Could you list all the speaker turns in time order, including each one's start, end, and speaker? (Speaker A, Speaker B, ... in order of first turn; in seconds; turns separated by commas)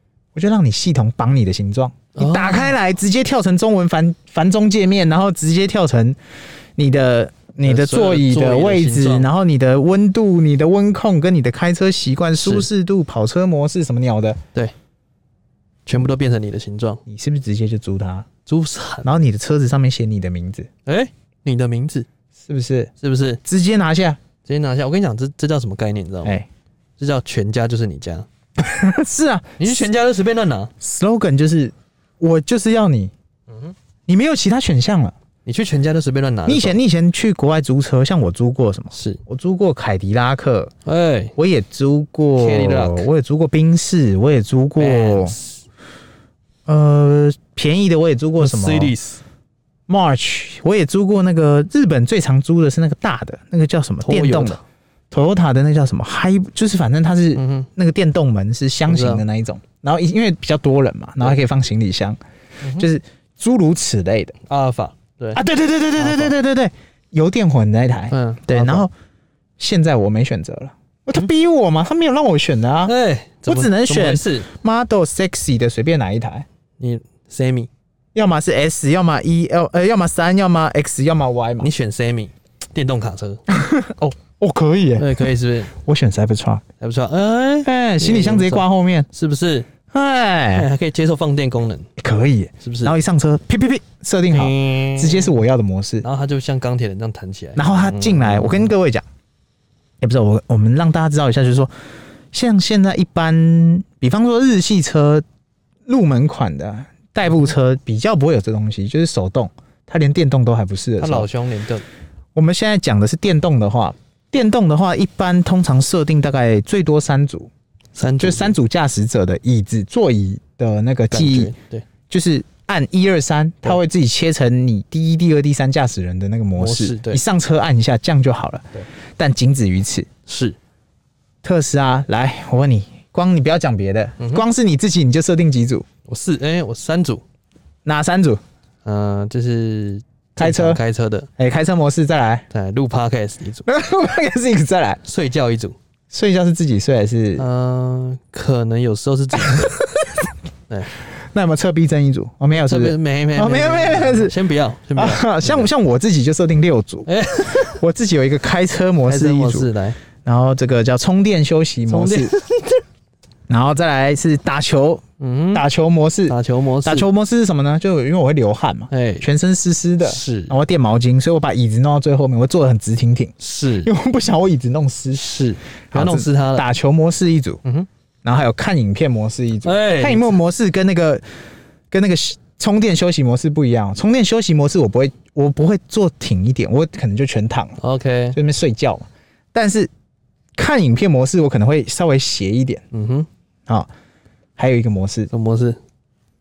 Speaker A: 0.3-6.2, Speaker B: 2.1-2.7, Speaker A: 6.8-14.4, Speaker B: 7.6-9.3, Speaker B: 12.4-12.7, Speaker B: 15.8-17.0, Speaker A: 17.1-18.3, Speaker B: 18.4-19.1, Speaker A: 19.0-20.7, Speaker B: 20.9-22.1, Speaker A: 22.4-22.9, Speaker B: 23.0-23.4, Speaker A: 23.4-24.2, Speaker B: 24.4-26.4, Speaker B: 27.0-28.3, Speaker A: 28.6-29.9, Speaker B: 29.6-30.7, Speaker A: 30.8-33.1, Speaker A: 34.1-35.1, Speaker B: 35.4-36.8, Speaker A: 36.5-40.7, Speaker B: 38.9-39.2, Speaker B: 40.9-41.3, Speaker A: 41.4-45.4, Speaker B: 42.4-43.1, Speaker B: 44.8-45.6, Speaker A: 46.7-48.9, Speaker B: 48.4-49.2, Speaker A: 49.9-54.6, Speaker B: 54.0-54.6, Speaker A: 55.1-62.2, Speaker B: 57.3-57.7, Speaker B: 58.9-59.2, Speaker B: 62.6-62.9, Speaker A: 62.8-64.3, Speaker B: 64.5-65.4, Speaker A: 65.3-68.9, Speaker B: 66.0-66.3, Speaker B: 68.1-68.8, Speaker A: 69.6-72.9, Speaker B: 72.8-74.5, Speaker A: 73.5-76.5, Speaker B: 76.8-77.7, Speaker A: 78.1-81.7, Speaker B: 81.6-83.4, Speaker A: 83.5-86.6, Speaker B: 85.0-85.7, Speaker B: 86.8-89.7, Speaker A: 87.6-89.1, Speaker A: 89.9-90.7, Speaker B: 90.5-91.9, Speaker A: 92.0-96.0, Speaker B: 92.6-92.9, Speaker B: 94.3-95.3, Speaker B: 96.0-98.7, Speaker A: 97.5-99.0, Speaker A: 100.0-101.7, Speaker A: 102.3-105.2, Speaker A: 105.9-111.3, Speaker B: 111.0-111.8, Speaker A: 112.3-117.5, Speaker B: 117.9-118.6, Speaker A: 118.2-121.5, Speaker B: 121.1-121.8, Speaker A: 122.1-130.1, Speaker B: 126.6-127.2, Speaker B: 130.3-130.6, Speaker A: 131.4-135.8, Speaker B: 134.2-134.4, Speaker B: 136.1-137.2, Speaker A: 137.8-138.4, Speaker B: 138.8-141.3, Speaker A: 140.4-140.8, Speaker A: 141.4-142.4, Speaker B: 142.5-143.7, Speaker A: 143.7-145.0, Speaker B: 145.0-145.8, Speaker A: 146.1-147.4, Speaker B: 147.4-149.8, Speaker A: 149.3-150.3, Speaker A: 151.3-154.3, Speaker B: 152.5-155.7, Speaker A: 154.9-157.1, Speaker B: 157.1-157.8, Speaker A: 157.6-159.7, Speaker B: 159.1-160.0, Speaker A: 160.2-162.3, Speaker B: 161.9-162.8, Speaker A: 163.5-175.2, Speaker B: 165.2-165.6, Speaker B: 166.3-167.1, Speaker B: 168.9-169.3, Speaker B: 170.0-170.6, Speaker B: 173.4-173.9, Speaker B: 175.1-176.7, Speaker A: 175.9-177.6, Speaker A: 178.2-181.2, Speaker B: 179.6-180.4, Speaker A: 181.9-187.8, Speaker B: 187.8-188.4, Speaker A: 188.3-189.9, Speaker A: 190.6-192.8, Speaker B: 192.9-193.3, Speaker A: 194.6-195.3, Speaker B: 195.3-195.8